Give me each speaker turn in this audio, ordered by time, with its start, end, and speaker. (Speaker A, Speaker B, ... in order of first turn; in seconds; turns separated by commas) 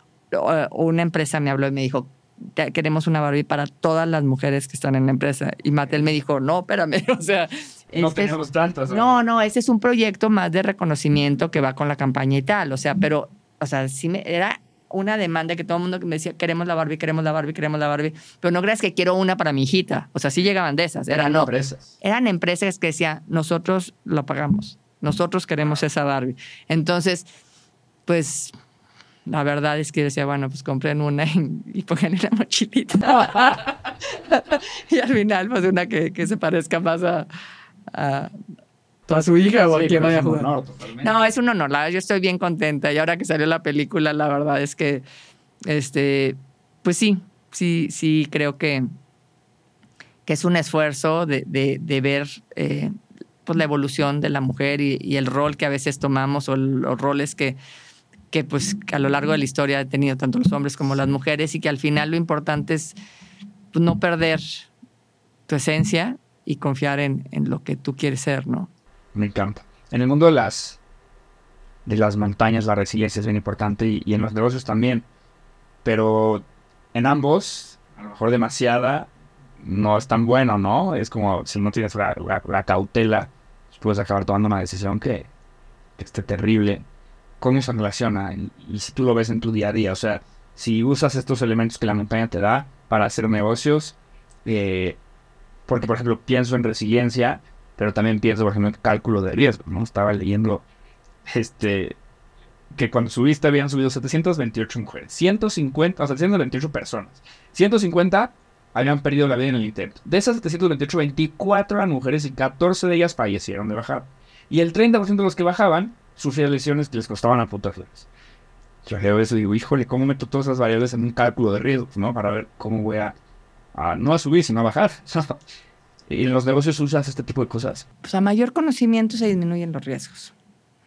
Speaker A: 0.3-8.3, Speaker B: 8.0-9.2, Speaker A: 8.9-27.3, Speaker B: 21.1-21.8, Speaker A: 28.1-28.5, Speaker A: 29.3-33.7, Speaker A: 34.3-37.3, Speaker A: 37.9-38.3, Speaker A: 39.1-40.5, Speaker B: 39.7-40.9, Speaker A: 41.0-45.0, Speaker A: 45.6-48.9, Speaker A: 50.2-52.9, Speaker A: 53.5-57.6, Speaker A: 58.3-63.0, Speaker A: 63.7-64.6, Speaker A: 65.5-68.7, Speaker B: 69.1-70.8, Speaker B: 71.8-75.0, Speaker B: 75.8-79.1, Speaker B: 79.6-85.3, Speaker B: 86.0-86.8, Speaker B: 87.4-93.9, Speaker B: 94.4-95.0, Speaker B: 95.7-100.6, Speaker B: 101.3-102.0, Speaker B: 102.7-118.0, Speaker B: 118.8-123.1, Speaker B: 123.7-125.4, Speaker B: 126.1-127.8, Speaker A: 128.0-130.3